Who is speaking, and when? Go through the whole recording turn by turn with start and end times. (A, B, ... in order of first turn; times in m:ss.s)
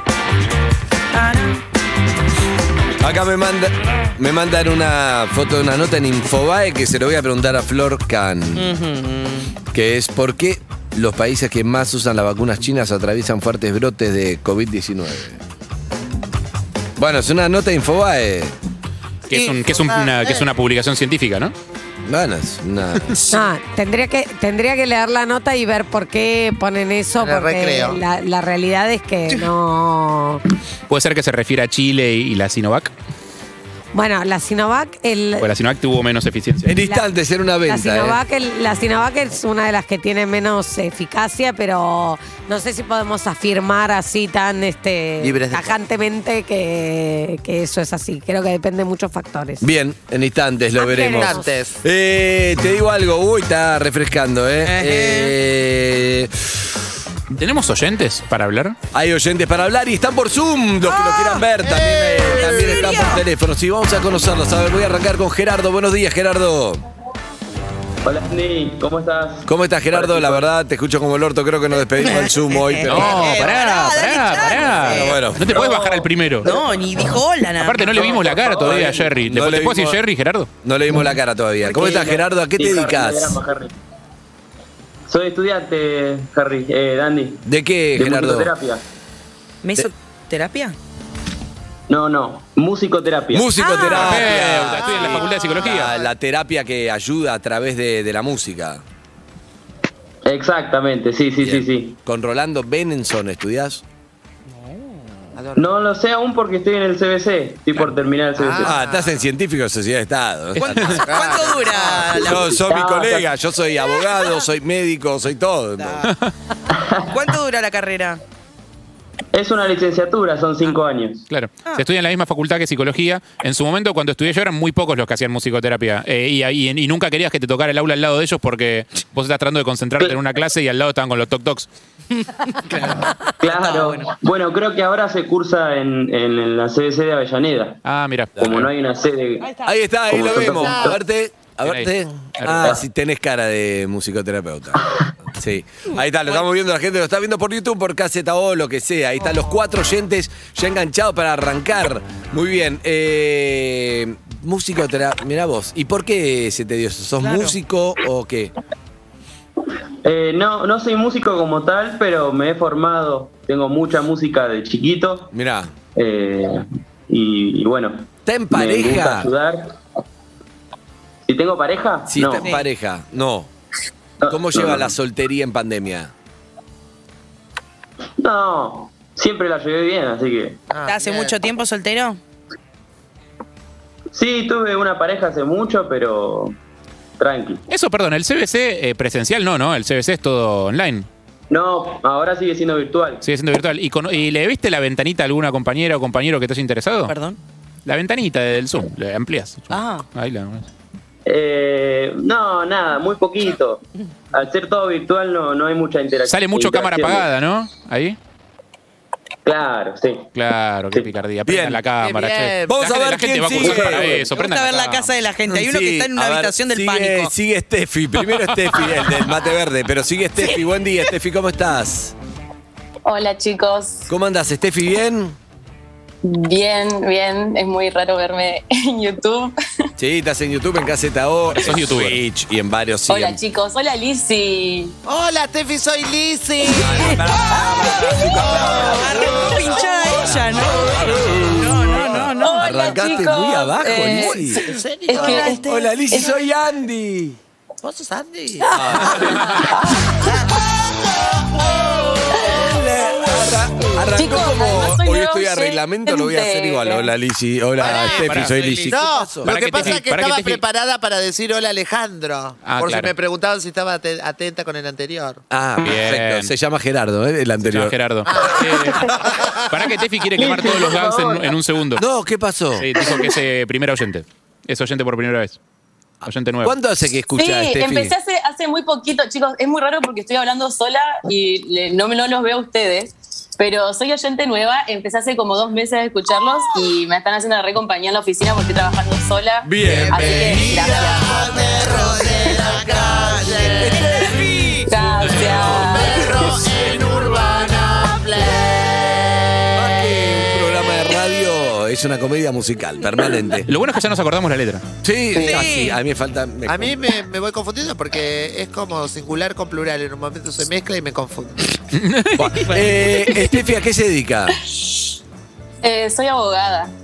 0:01.1-0:01.6 A
0:03.0-0:08.7 B
0:08.6-0:09.5 A
0:09.7-0:15.4 B
0:17.0-0:18.5 B
0:19.3-0:21.5 C
0:19.3-0:20.5 D
0:22.1-0:23.2 B
0:23.3-0:30.4 E
0:27.2-0:28.0 D
0:30.9-0:32.9 C
0:33.9-0:35.5 E
0:35.4-0:36.8 C
0:36.6-0:38.2 B
0:36.8-0:37.1 E
0:37.7-0:49.7 E
0:45.2-0:45.8 D
0:49.6-0:56.7 B
0:50.8-0:51.6 E
0:50.8-0:51.8 D
0:54.6-0:55.3 A
0:57.3-0:58.8 C
0:58.9-1:06.8 B
1:00.9-1:03.0 D
1:02.3-1:03.2 A
1:08.0-1:10.5 F
1:09.5-1:13.4 B
1:12.0-1:18.9 A
1:12.9-1:16.5 C
1:14.8-1:15.7 B
1:17.6-1:20.5 C
1:18.6-1:20.0 B
1:20.6-1:23.4 B
1:21.7-1:23.7 F
1:25.1-1:27.4 F
1:27.4-1:28.5 B
1:28.0-1:28.8 F
1:29.6-1:30.8 A
1:31.9-1:33.6 F
1:33.3-1:38.8 B
1:33.6-1:36.1 D
1:33.7-1:35.9 C
1:40.3-1:42.0 F
1:41.4-1:43.8 B
1:45.4-1:45.7 D
1:45.6-1:48.7 F
1:48.4-1:49.2 D
1:48.6-1:51.0 B
1:50.6-1:52.5 A
1:50.9-1:52.4 D
1:52.3-1:56.1 B
1:52.5-1:53.3 F
1:56.1-1:56.3 C
1:56.8-1:57.1 F
1:57.1-1:58.2 A
1:59.3-2:01.3 F
2:01.3-2:11.7 C
2:12.2-2:12.8 A
2:13.4-2:17.8 F
2:13.4-2:14.1 A
2:17.8-2:18.7 C
2:18.4-2:18.6 B
2:18.4-2:19.5 F
2:19.4-2:19.7 A
2:19.6-2:24.8 B
2:20.1-2:21.0 F
2:20.4-2:21.0 D
2:21.6-2:22.8 C
2:25.3-2:38.5 B
2:37.2-2:37.6 A
2:40.0-2:45.3 F
2:45.3-2:45.7 B
2:46.0-2:49.8 F
2:48.3-2:49.3 B
2:51.3-2:52.5 F
2:52.1-2:53.5 B
2:52.4-2:52.7 A
2:54.2-2:54.9 F
2:54.3-2:56.1 B
2:58.2-3:00.6 F
3:00.7-3:01.4 D
3:00.8-3:02.2 A
3:04.1-3:06.6 F
3:07.2-3:07.6 F
3:07.7-3:11.1 C
3:11.5-3:13.2 F
3:13.2-3:17.2 C
3:17.1-3:17.4 A
3:17.8-3:20.7 C
3:19.7-3:20.1 A
3:21.3-3:23.8 F
3:24.3-3:27.3 F
3:26.3-3:28.2 C
3:29.4-3:30.3 F
3:30.4-3:35.1 C
3:31.5-3:31.8 B
3:32.0-3:32.8 D
3:32.7-3:34.2 B
3:33.7-3:37.3 A
3:35.5-3:42.2 B
3:38.3-3:38.7 C
3:43.0-3:44.1 G
3:44.1-3:45.4 B
3:46.2-3:49.6 G
3:50.0-3:53.4 B
3:51.5-3:52.2 C
3:53.1-3:54.9 G
3:55.1-4:00.1 D
3:56.7-4:04.6 B
3:58.7-4:02.9 A
4:02.0-4:02.3 D
4:02.4-4:06.3 G
4:04.2-4:05.6 D
4:05.1-4:05.8 A
4:05.6-4:07.4 B
4:07.8-4:09.4 D
4:08.7-4:09.6 B
4:09.4-4:09.6 C
4:12.4-4:20.0 B
4:14.1-4:17.1 G
4:17.8-4:25.4 D
4:17.8-4:20.6 C
4:22.6-4:23.1 C
4:25.5-4:28.0 B
4:25.8-4:26.5 C
4:27.7-4:29.2 C
4:28.3-4:29.9 D
4:29.7-4:32.0 C
4:30.4-4:31.5 D
4:32.0-4:32.9 B
4:32.8-4:35.6 C
4:36.2-4:36.7 C
4:36.2-4:38.1 B
4:37.4-4:51.8 G
4:49.6-4:51.0 B
4:49.9-4:54.2 D
4:52.7-4:54.9 A
4:53.8-4:54.5 B
4:54.9-4:56.4 G
4:55.2-4:56.1 B
4:55.6-4:59.7 D
4:59.8-5:03.7 B
5:03.7-5:04.8 C
5:05.0-5:07.0 B
5:05.4-5:06.0 A
5:06.7-5:11.6 D
5:11.9-5:12.6 C
5:12.4-5:14.6 B
5:12.6-5:13.4 A
5:15.8-5:16.9 G